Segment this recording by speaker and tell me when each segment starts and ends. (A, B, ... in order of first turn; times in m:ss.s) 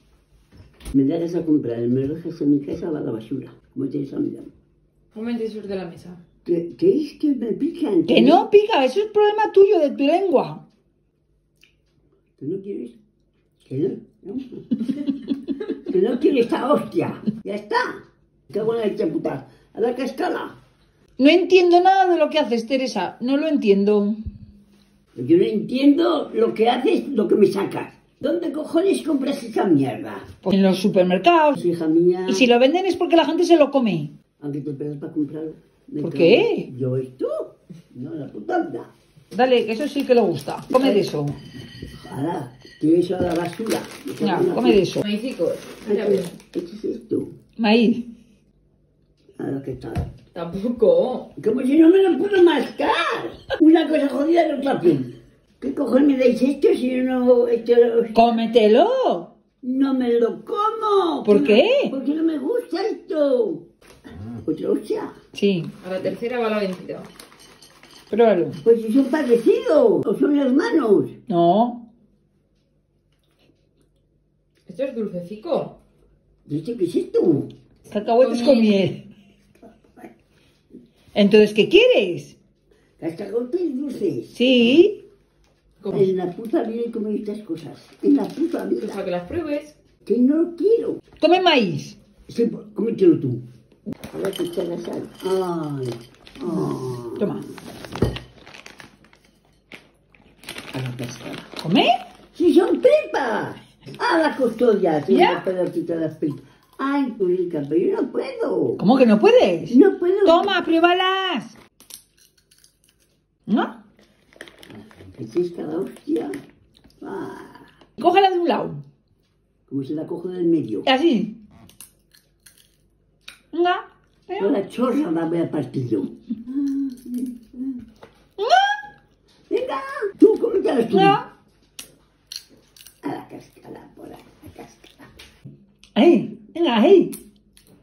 0:00.9-0:04.5 A
0:05.1-0:06.2 B
0:06.4-0:08.4 A
0:08.1-0:10.6 C
0:12.4-0:13.0 A
0:13.6-0:15.0 A
0:15.8-0:20.6 A
0:21.2-0:24.2 C
0:25.2-0:30.3 A
0:30.4-0:31.6 C
0:31.6-0:32.5 A
0:32.3-0:34.1 C
0:34.4-0:38.9 A
0:36.0-0:36.7 C
0:39.3-0:41.4 C
0:42.0-0:44.9 A
0:44.2-0:45.0 C
0:45.0-0:46.3 B
0:45.8-0:47.3 A
0:47.6-0:48.1 C
0:49.4-0:50.1 A
0:50.3-0:51.3 B
0:51.4-0:58.4 A
0:58.1-0:59.3 C
0:59.6-1:03.7 A
1:01.2-1:01.9 C
1:04.4-1:05.1 A
1:05.3-1:05.7 C
1:05.8-1:07.1 B
1:08.1-1:08.6 C
1:08.6-1:11.2 A
1:11.3-1:11.8 C
1:14.7-1:15.8 B
1:16.5-1:17.5 A
1:17.9-1:19.0 C
1:18.2-1:18.8 B
1:19.6-1:20.1 A
1:21.1-1:22.4 C
1:23.0-1:24.4 A
1:24.4-1:25.0 C
1:25.8-1:26.1 B
1:25.9-1:29.0 A
1:28.8-1:29.8 B
1:30.0-1:31.0 A
1:31.2-1:32.0 C
1:32.3-1:33.4 A
1:34.1-1:37.4 A
1:37.2-1:37.4 C
1:40.7-1:41.5 A
1:41.6-1:41.9 C
1:42.3-1:48.8 A
1:45.1-1:45.4 C
1:48.8-1:51.6 C
1:49.7-1:50.6 A
1:53.5-1:53.7 C
1:54.7-1:56.4 A
1:57.0-1:57.7 A
1:58.0-1:58.8 C
1:59.7-2:00.9 A
2:00.9-2:01.4 C
2:03.5-2:04.5 C
2:04.4-2:07.8 A
2:08.4-2:08.8 C
2:09.5-2:11.2 A
2:10.9-2:11.2 C
2:13.0-2:15.1 A
2:16.0-2:17.2 C